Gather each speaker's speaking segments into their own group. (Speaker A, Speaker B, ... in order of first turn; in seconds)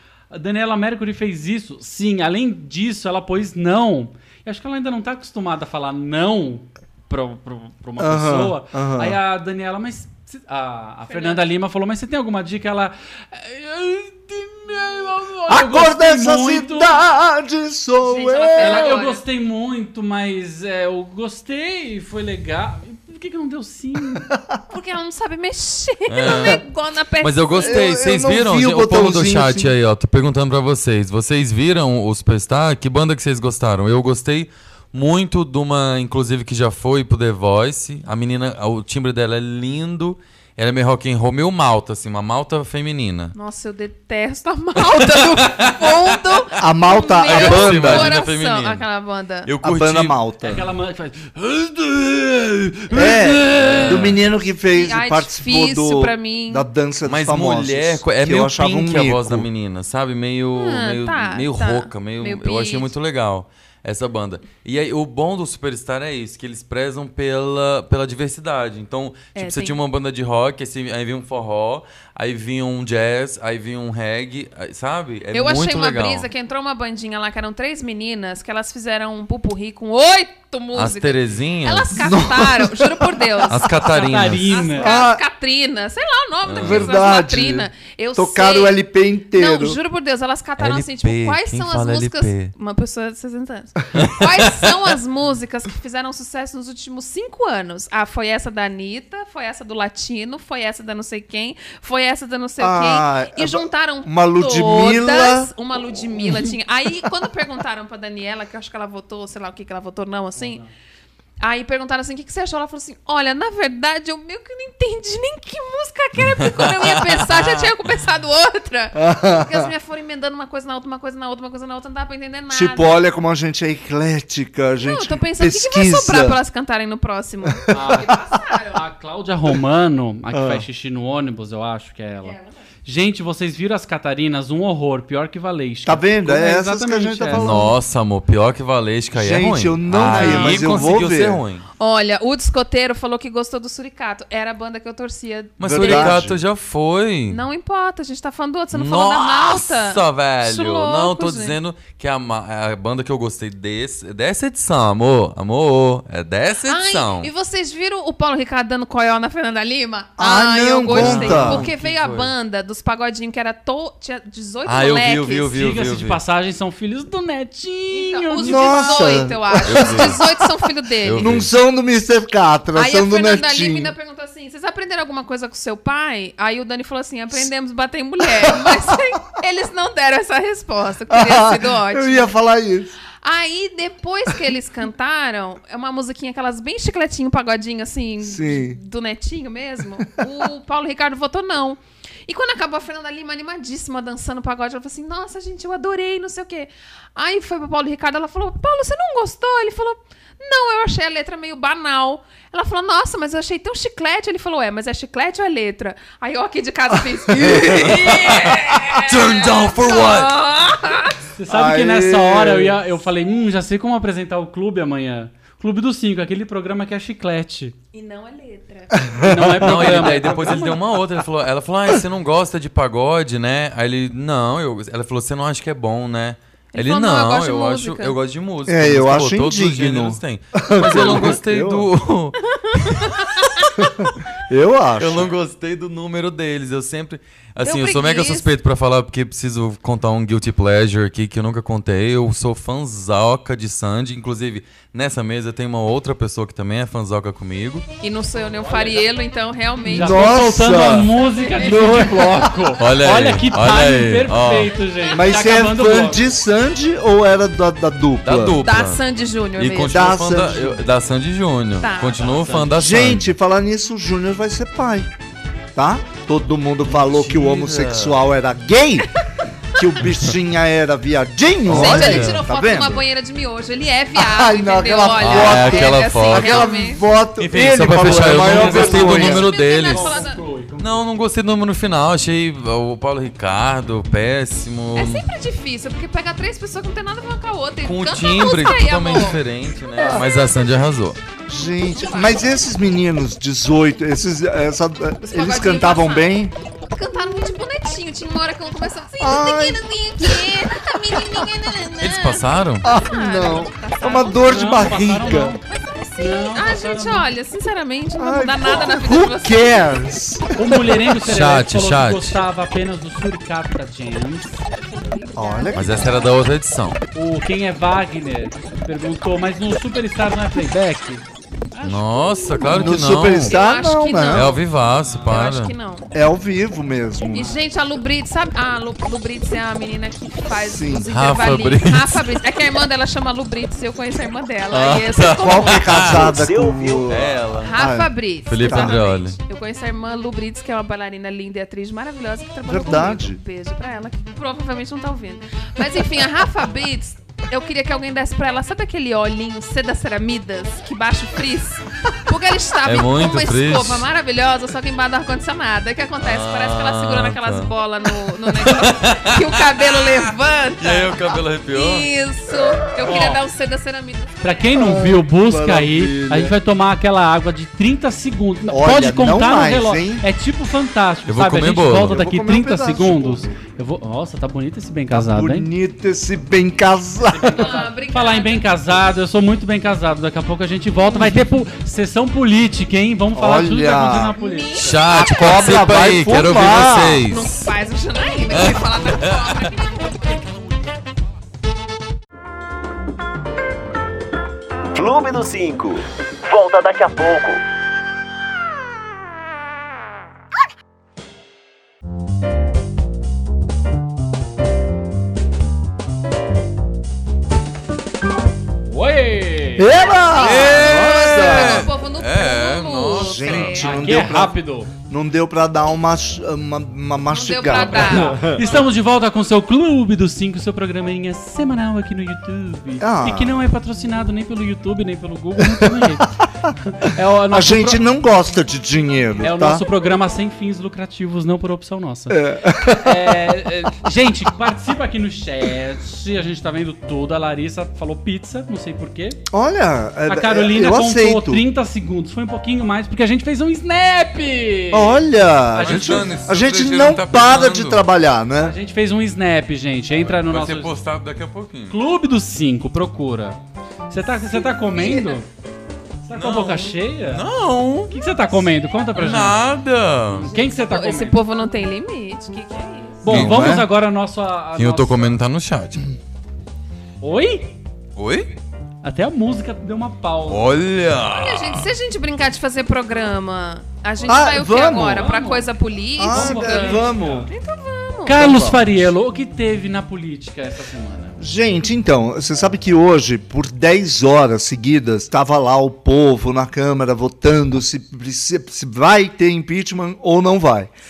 Speaker A: 0.3-17.0, 18.5-24.3, 50.4-54.1, 83.9-84.9, 110.4-110.7, 127.7-128.2, 128.7-137.6, 165.6-169.2, 211.4-217.8, 219.2-220.8, 248.6-249.0, 249.9-256.3, 262.3-262.7, 278.0-281.1, 304.4-305.6, 306.2-307.3, 310.6-314.6, 317.1-323.0, 324.9-325.4, 363.0-363.4, 364.4-375.7, 377.3-384.8, 408.9-409.9, 413.8-414.9, 417.8-428.0, 429.4-439.4, 440.3-446.4, 448.6-450.9, 451.9-453.6, 454.1-455.5, 456.2-457.4, 458.1-459.7, 460.3-461.4, 463.2-465.4, 467.2-467.7, 469.0-470.7, 475.1-475.7, 476.3-477.5, 478.2-481.4
Speaker B: 8.0-9.2, 15.5-19.0, 24.3-24.6, 26.2-26.6, 27.6-29.7, 46.6-48.2, 49.6-50.6, 52.9-59.5, 82.0-83.6, 84.8-85.2, 86.6-89.8, 102.6-105.5, 106.2-106.5, 118.9-119.7, 122.5-126.4, 127.7-128.2, 130.3-130.7, 135.8-137.8, 139.1-141.4, 145.6-146.4, 160.2-161.7, 168.4-170.3, 171.2-173.9, 178.3-179.0, 181.1-183.0, 188.2-188.8, 207.3-208.0, 211.5-212.8, 218.9-220.2, 228.7-231.9, 233.8-235.3, 249.9-252.5, 255.1-258.6, 259.9-260.8, 262.8-265.1, 265.8-269.1, 269.8-273.1, 274.1-279.5, 290.0-290.3, 291.5-296.5, 299.2-301.5, 302.8-305.6, 308.2-311.1, 315.4-316.2, 322.7-324.6, 326.1-327.6, 330.5-331.1, 335.4-339.0, 342.7-343.4, 364.8-366.6, 368.7-370.3, 372.0-373.6, 375.1-377.7, 383.4-384.3, 385.1-387.2, 409.8-411.9, 413.1-418.7, 423.0-423.6, 425.6-426.2, 427.5-429.9, 432.3-433.6, 439.5-441.6, 444.9-448.8, 463.3-463.9, 474.3-475.4, 476.2-477.5, 478.3-478.8, 481.4-490.9
Speaker C: 11.1-11.4, 18.0-19.2, 24.7-27.9, 43.3-49.5, 54.7-56.6, 60.5-62.9, 69.3-69.8, 75.3-83.8, 84.3-88.8, 89.3-110.6, 111.4-123.0, 124.8-128.8, 132.2-132.5, 140.1-140.9, 141.8-146.2, 147.3-151.6, 156.7-165.6, 167.9-171.4, 172.8-182.3, 183.2-211.2, 217.9-219.2, 226.7-228.2, 232.8-233.7, 237.6-238.5, 248.0-252.6, 258.6-260.4, 261.8-262.4, 271.7-277.0, 278.8-280.4, 284.9-289.4, 291.6-292.6, 295.2-305.1, 305.7-309.8, 314.7-316.3, 323.3-324.6, 325.3-326.1, 327.2-336.1, 337.6-364.6, 377.6-378.6, 384.4-386.0, 387.3-390.3, 409.9-414.1, 417.3-418.8, 454.5-455.4, 460.5-463.3, 471.2-478.4
Speaker D: 26.1-26.6, 27.2-43.3, 44.8-46.2, 47.2-48.9, 49.5-50.6, 53.5-54.2, 57.0-76.3, 80.8-82.1, 83.5-84.6, 86.4-87.0, 90.6-92.5, 93.9-94.8, 116.2-117.7, 137.3-141.7, 145.6-147.4, 148.7-157.3, 160.9-162.3, 164.7-166.2, 169.6-170.2, 171.0-171.5, 207.5-210.3, 219.6-233.2, 235.0-247.8, 252.8-254.7, 258.2-259.0, 259.6-263.3, 266.9-268.2, 271.7-272.4, 275.2-276.7, 277.4-280.2, 280.8-285.2, 287.8-291.2, 302.0-302.9, 311.2-312.4, 315.7-317.0, 321.8-323.6, 324.3-325.8, 331.1-332.2, 334.7-336.4, 337.1-337.8, 338.5-339.4, 352.9-354.1, 356.2-357.8, 358.5-362.1, 371.3-372.2, 384.7-387.7, 388.5-389.6, 410.4-413.8, 445.8-448.1, 450.2-452.0, 456.3-458.1, 459.1-460.5, 463.3-463.8, 464.8-466.1, 468.2-468.5, 470.5-471.9
Speaker E: 336.0-337.4, 394.9-397.6